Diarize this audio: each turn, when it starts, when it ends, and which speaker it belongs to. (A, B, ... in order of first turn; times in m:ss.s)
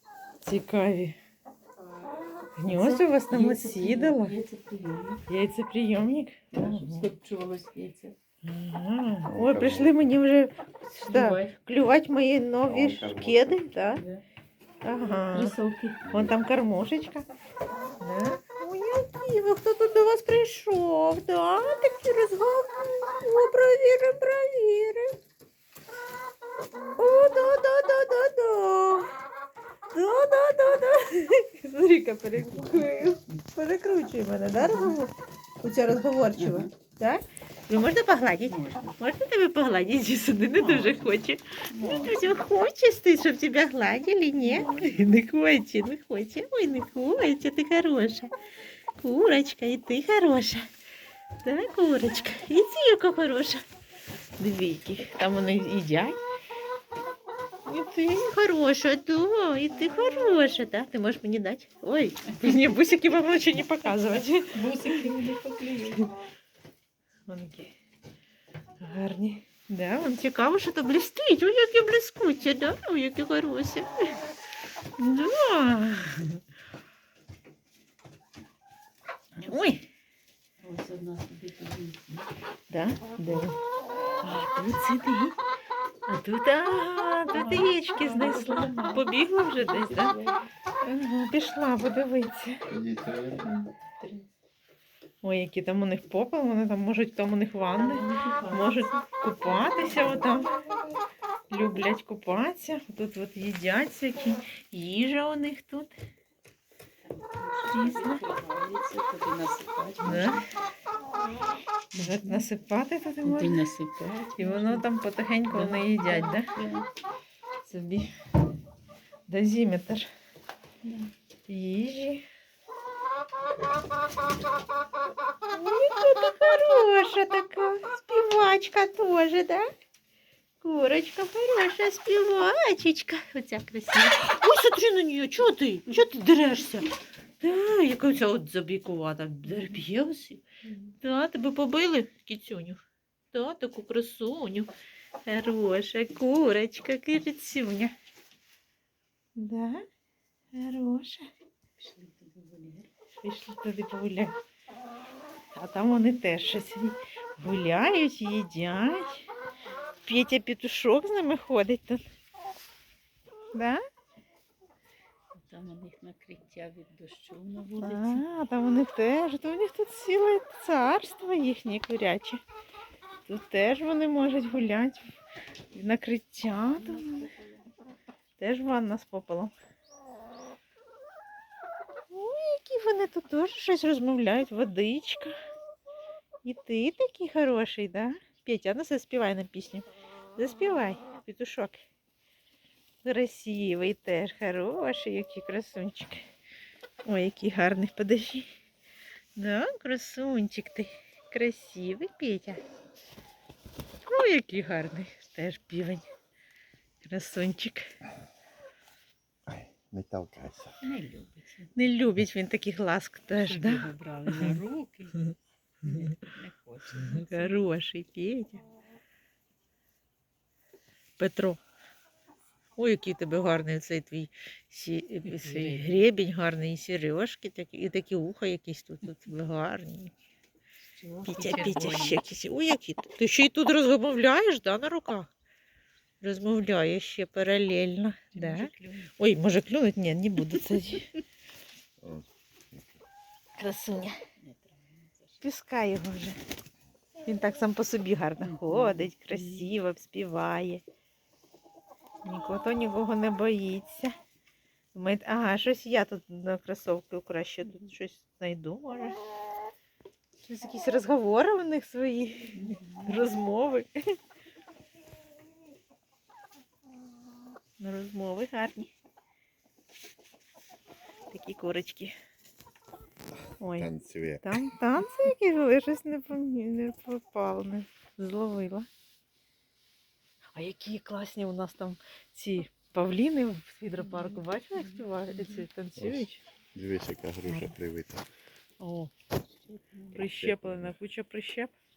0:00.4-0:01.2 A
0:02.6-0:04.4 A
0:02.7-0:05.2 B
0:05.3-0:07.1 A
0:06.5-0:08.1 B
0:08.4-0:14.0 A
0:09.2-0:10.0 C
0:10.9-0:11.5 B
0:12.6-0:13.4 C
0:14.0-0:14.2 B
0:14.8-0:15.6 A
0:15.2-0:16.0 B
0:16.0-0:16.4 C
0:16.1-0:17.3 A
0:18.0-0:25.2 A
0:27.0-0:29.1 A
0:29.9-0:48.3 A
0:32.4-0:33.4 B
0:34.5-0:35.0 B
0:36.4-0:36.7 B
0:38.5-0:39.0 B
0:40.6-0:41.1 B
0:41.7-0:42.2 B
0:44.4-0:45.0 B
0:49.0-0:50.7 A
0:51.4-0:53.6 A
0:54.4-0:56.2 A
0:57.6-1:05.1 A
1:04.4-1:06.1 B
1:07.3-1:07.7 A
1:08.8-1:14.1 A
1:15.0-1:16.4 A
1:19.4-1:19.8 A
1:20.6-1:22.3 B
1:22.7-1:23.6 A
1:24.2-1:25.4 A
1:26.1-1:30.2 A
1:27.3-1:30.4 B
1:30.8-1:32.6 A
1:32.7-1:33.4 C
1:33.4-1:34.2 B
1:35.2-1:40.5 A
1:37.7-1:38.9 B
1:39.4-1:40.2 B
1:41.5-1:45.9 A
1:47.0-1:50.4 B
1:47.7-1:48.2 A
1:50.0-1:50.4 A
1:51.9-1:52.4 B
1:51.9-1:53.6 A
1:53.2-1:54.9 B
1:54.4-1:56.5 A
1:55.5-1:56.9 B
1:57.6-1:58.1 A
1:59.3-2:00.1 A
2:00.8-2:01.1 B
2:01.5-2:02.2 A
2:05.4-2:09.7 A
2:10.6-2:16.9 A
2:17.4-2:20.4 A
2:19.5-2:19.7 B
2:21.0-2:22.8 A
2:23.3-2:24.7 A
2:25.2-2:27.9 A
2:29.4-2:29.8 A
2:30.5-2:31.3 A
2:31.8-2:32.9 B
2:33.2-2:34.3 A
2:35.5-2:39.2 A
2:40.0-2:42.0 A
2:43.5-2:43.8 A
2:45.3-2:48.2 B
2:47.8-2:52.4 A
2:53.2-2:55.1 A
2:55.7-2:57.3 A
2:56.8-2:57.5 B
2:58.4-2:59.5 A
3:02.1-3:05.3 A
3:06.4-3:11.8 A
3:13.0-3:16.2 A
3:17.0-3:18.5 A
3:19.4-3:22.6 A
3:24.0-3:26.0 A
3:27.0-3:27.9 A
3:29.5-3:30.8 C
3:30.8-3:31.9 B
3:31.7-3:34.6 A
3:33.4-3:37.6 B
3:37.0-3:38.6 A
3:41.2-3:41.6 A
3:42.8-3:50.1 A
3:45.2-3:46.0 B
3:50.9-3:52.2 B
3:51.2-3:55.3 A
3:56.2-4:01.2 A
3:58.3-3:59.1 B
4:02.0-4:03.0 C
4:03.6-4:04.2 A
4:04.4-4:05.4 B
4:05.4-4:06.4 A
4:07.2-4:10.8 A
4:08.4-4:09.7 B
4:12.2-4:14.2 A
4:14.9-4:19.2 A
4:17.6-4:17.9 B
4:20.4-4:23.9 A
4:22.5-4:23.3 B
4:27.8-4:28.9 A
4:31.3-4:32.1 A
4:33.6-4:33.9 A
4:33.7-4:34.6 C
4:34.4-4:38.9 A
4:40.6-4:46.4 A
4:44.0-4:45.7 B
4:46.0-4:48.2 C
4:47.4-4:47.7 A
4:48.8-4:49.1 A
4:49.6-4:50.3 B
4:50.1-4:51.7 A
4:50.2-4:50.9 C